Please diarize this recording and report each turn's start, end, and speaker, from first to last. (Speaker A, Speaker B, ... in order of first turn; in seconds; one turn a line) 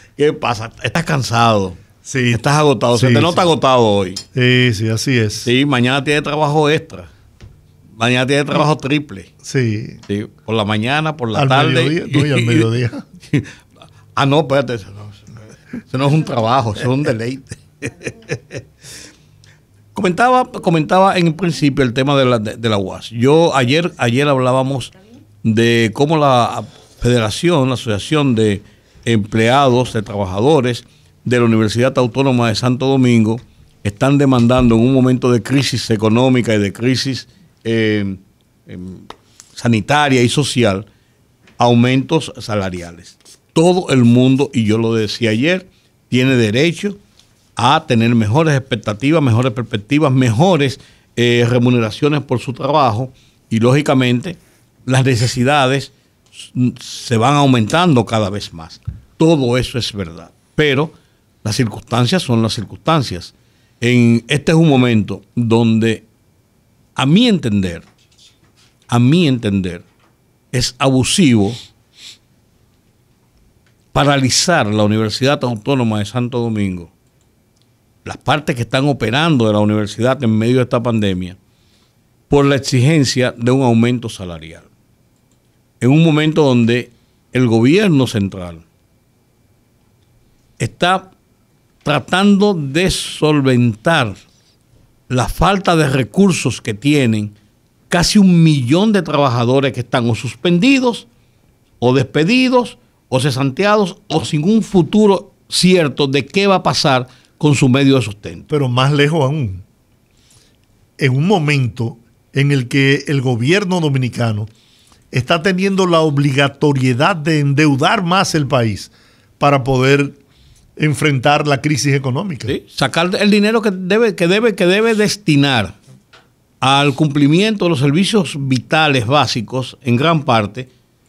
Speaker A: 0.2-1.8
Speaker B: 2.0-2.4
Speaker A: 2.3-4.2
Speaker B: 2.9-3.4
Speaker B: 4.3-5.5
Speaker A: 5.5-7.1
Speaker A: 8.0-9.3
Speaker B: 9.4-10.0
Speaker A: 10.1-12.7
Speaker B: 11.3-13.0
Speaker A: 13.3-13.5
Speaker A: 14.2-15.2
Speaker A: 15.9-18.4
Speaker A: 19.9-24.9
Speaker A: 25.4-40.9
Speaker A: 41.6-47.0
Speaker A: 47.6-60.9
Speaker A: 61.4-66.0
Speaker A: 67.0-67.8
Speaker A: 68.9-69.8
Speaker A: 70.5-71.6
Speaker A: 73.9-76.9
Speaker A: 78.0-81.4
Speaker A: 82.3-84.7
Speaker A: 85.8-88.6
Speaker A: 90.6-91.1
Speaker A: 91.8-94.2
Speaker A: 95.1-97.3
Speaker A: 97.9-101.1
Speaker A: 101.8-108.5
Speaker B: 108.5-109.6
Speaker B: 111.0-114.5
Speaker B: 115.1-120.2
Speaker B: 120.8-122.5
Speaker A: 122.5-125.8
Speaker A: 126.6-130.7